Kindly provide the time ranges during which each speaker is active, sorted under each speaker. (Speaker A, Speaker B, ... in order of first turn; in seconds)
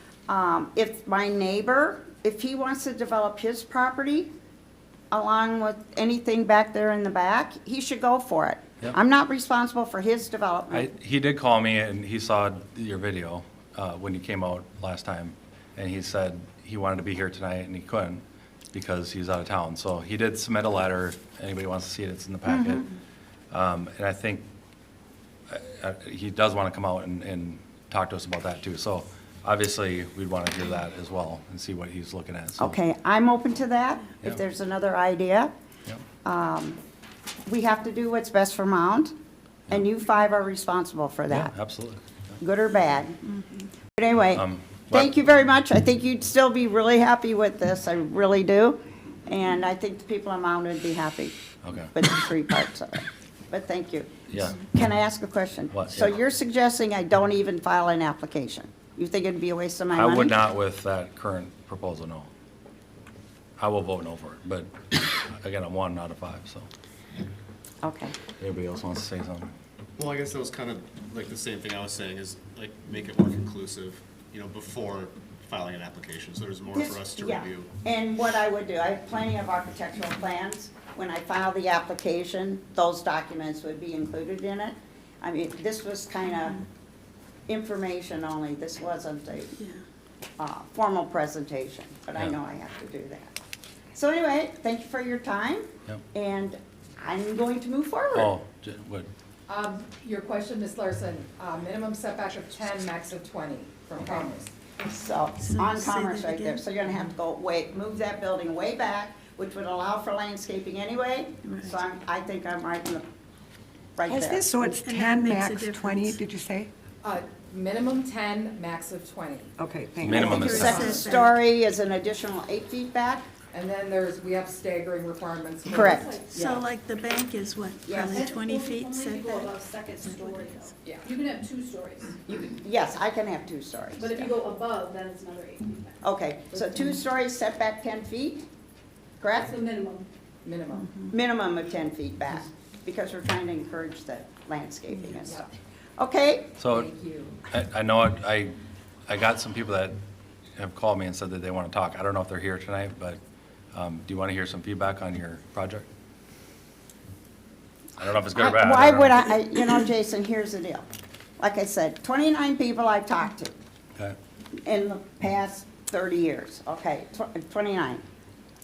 Speaker A: 0.3-4.3, 5.1-10.9, 22.5-22.8, 32.6-35.5, 36.2-36.8, 37.5-39.1, 39.7-41.5, 42.4-43.2, 44.0-51.4, 51.9-60.4, 67.8-68.2, 76.7-86.6, 87.5-89.6, 90.4-93.4, 93.9-98.3, 104.8-113.1, 114.0-114.6, 119.6-123.3, 125.7-126.2, 127.9-128.3, 132.3-134.4, 136.0-138.4, 139.2-139.7, 141.1-145.5, 146.0-146.6, 158.4-160.9, 161.4-163.5, 164.7-168.0
Speaker B: 10.7-22.8, 23.5-24.5, 25.5-32.8, 41.3-42.0, 44.3-45.1, 51.6-51.9, 54.3-54.6, 55.7-56.1, 59.9-62.3, 63.6-66.7, 68.4-69.5, 98.1-99.1, 120.0-121.0, 146.6-146.9, 147.5-148.6, 149.1-149.9, 150.6-153.2, 153.7-155.9, 158.0-159.3
Speaker C: 70.0-77.7
Speaker D: 99.5-104.5, 117.0-119.5, 123.5-126.7, 139.5-139.8, 140.4-141.0, 145.2-145.5, 146.7-147.4
Speaker E: 105.4-106.7, 111.5-111.7, 114.7-116.2, 120.0-121.3, 126.3-130.7
Speaker F: 114.0-116.7
Speaker G: 128.1-132.1, 134.0-135.9